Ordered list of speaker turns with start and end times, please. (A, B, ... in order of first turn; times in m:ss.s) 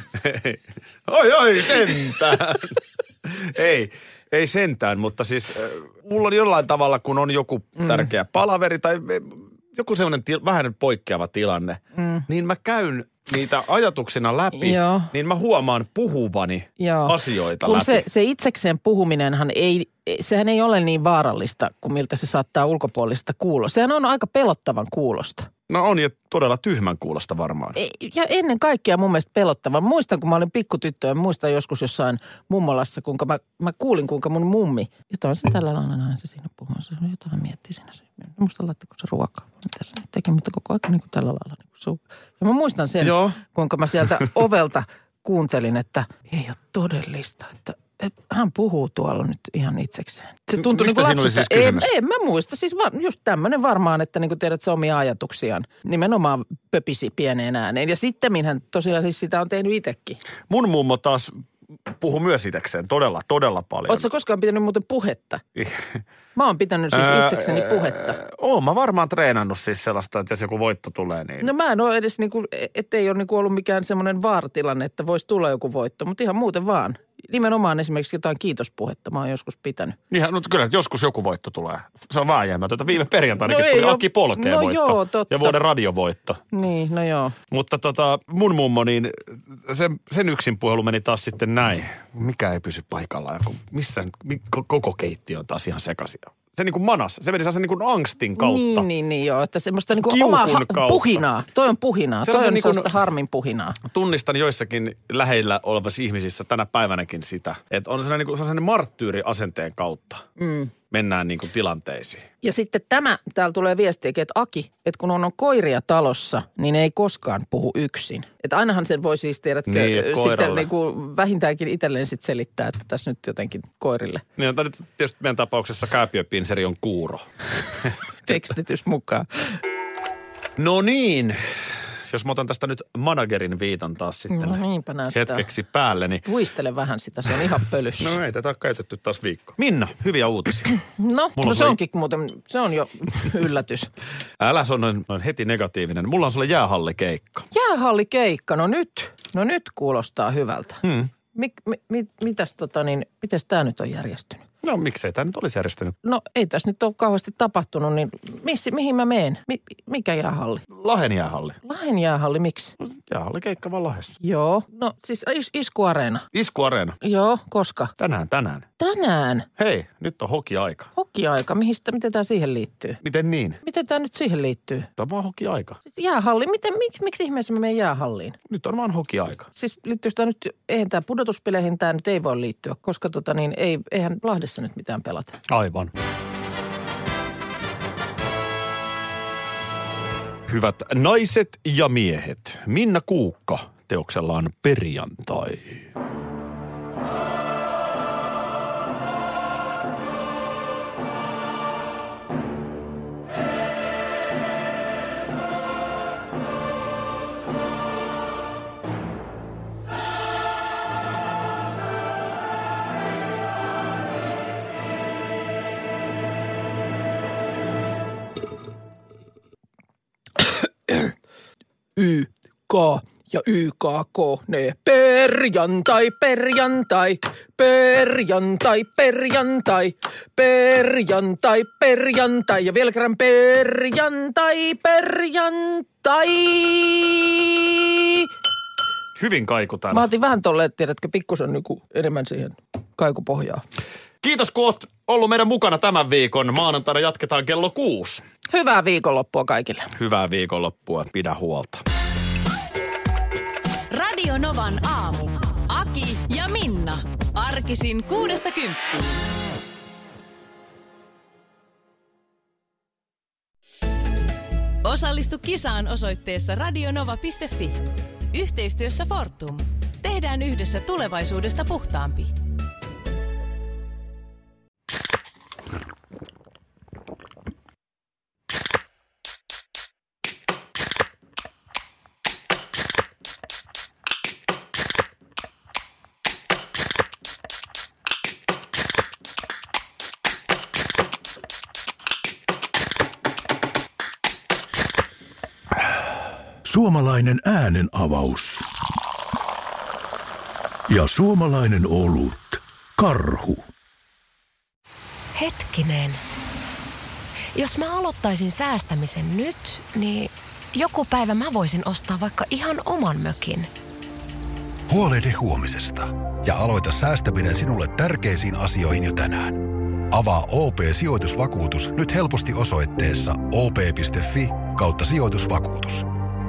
0:00.2-0:18.0 A
0:12.0-0:12.2 B
0:14.6-0:15.1 B
0:16.8-0:25.5 B
0:25.7-0:27.8 A
0:27.8-1:00.2 B
0:43.0-0:43.4 A
0:50.6-0:51.9 A
1:00.5-1:01.3 A
1:01.9-1:04.1 A
1:03.9-1:05.4 B
1:05.6-1:06.0 A
1:06.4-1:08.2 B
1:06.9-1:11.5 A
1:11.4-1:20.0 B
1:20.1-1:26.4 A
1:23.5-1:25.6 B
1:26.5-1:27.4 B
1:27.5-1:38.9 A
1:38.4-1:43.8 B
1:40.0-1:41.2 A
1:42.2-1:42.9 A
1:43.8-1:50.2 A
1:50.4-1:50.7 B
1:50.9-1:52.3 A
1:52.4-2:04.2 B
1:59.7-2:00.7 A
2:04.4-2:07.3 A
2:08.2-2:09.6 B
2:10.6-2:11.4 A
2:12.1-2:16.3 A
2:14.3-2:15.5 B
2:16.2-2:18.2 B
2:18.0-2:20.7 A
2:21.0-2:23.9 B
2:21.4-2:21.8 A
2:24.4-2:27.5 A
2:27.5-2:30.8 B
2:30.8-2:31.1 A
2:31.3-2:34.4 B
2:34.6-2:36.0 A
2:36.0-2:40.7 B
2:40.7-2:41.6 A
2:41.6-2:42.7 B
2:42.8-2:44.2 A
2:44.2-2:46.3 B
2:46.3-2:47.0 A
2:47.0-2:47.9 B
2:48.0-2:48.7 A
2:48.8-2:49.5 B
2:49.6-2:50.9 A
2:51.0-2:53.0 B
2:53.0-2:53.6 A
2:53.6-2:54.9 B
2:55.0-2:55.8 A
2:55.9-2:58.4 B
2:58.5-2:59.5 A
2:59.6-3:05.4 B
3:05.5-3:05.9 A
3:10.5-3:15.9 A
3:40.4-3:41.2 B
3:42.0-3:58.3 B
3:59.2-4:00.1 A
3:59.9-4:03.6 B
4:04.2-4:08.2 A
4:08.5-4:09.9 B
4:10.0-4:11.8 A
4:13.9-4:19.2 C
4:24.8-4:32.3 C
4:56.6-4:58.6 D
5:00.9-5:03.7 D
5:05.4-5:06.2 E
5:07.6-5:13.7 E
5:14.9-5:26.1 F